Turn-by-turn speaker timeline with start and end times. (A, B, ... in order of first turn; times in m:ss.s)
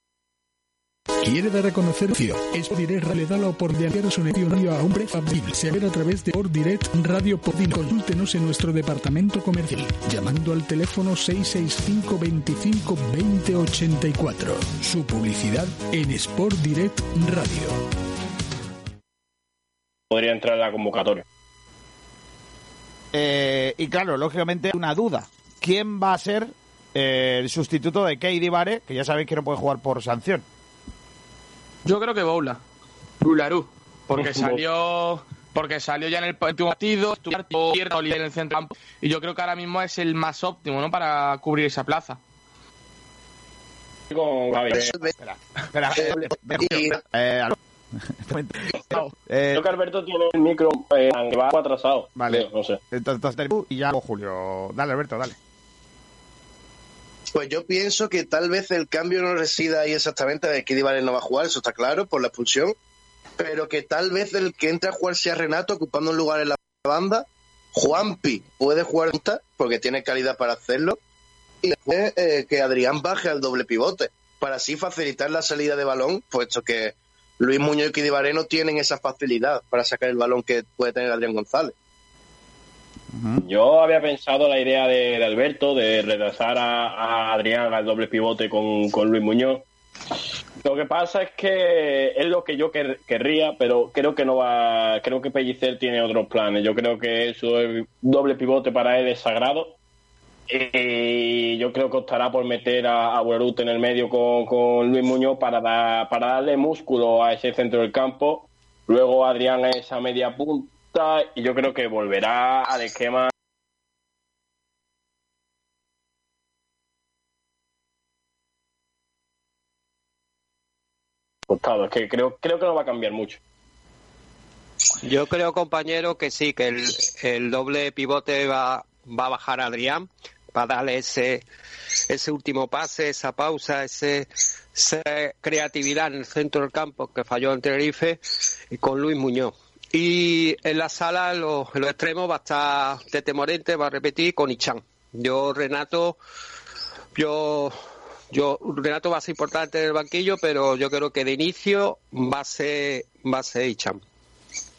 0:01.2-0:17.8 A
0:20.1-0:21.2 B
0:23.1-0:30.4 C
0:31.8-0:32.6 D
0:33.2-0:42.2 D
0:34.2-0:34.5 B
0:44.1-0:44.9 B
0:44.7-0:45.1 E
0:45.2-0:47.6 C
0:46.0-0:47.0 E
0:48.1-0:49.7 C
0:49.5-0:52.8 B
0:52.2-0:55.4 C
0:57.3-1:02.8 E
1:03.4-1:11.0 E
1:11.6-1:21.7 E
1:23.1-1:23.4 C
1:23.4-1:29.6 B
1:30.6-1:39.8 B
1:40.5-1:53.3 B
2:01.5-2:03.4 B
2:05.0-2:11.5 F
2:12.1-2:18.2 F
2:18.7-2:26.2 F
2:27.2-2:27.8 F
2:28.3-2:34.0 F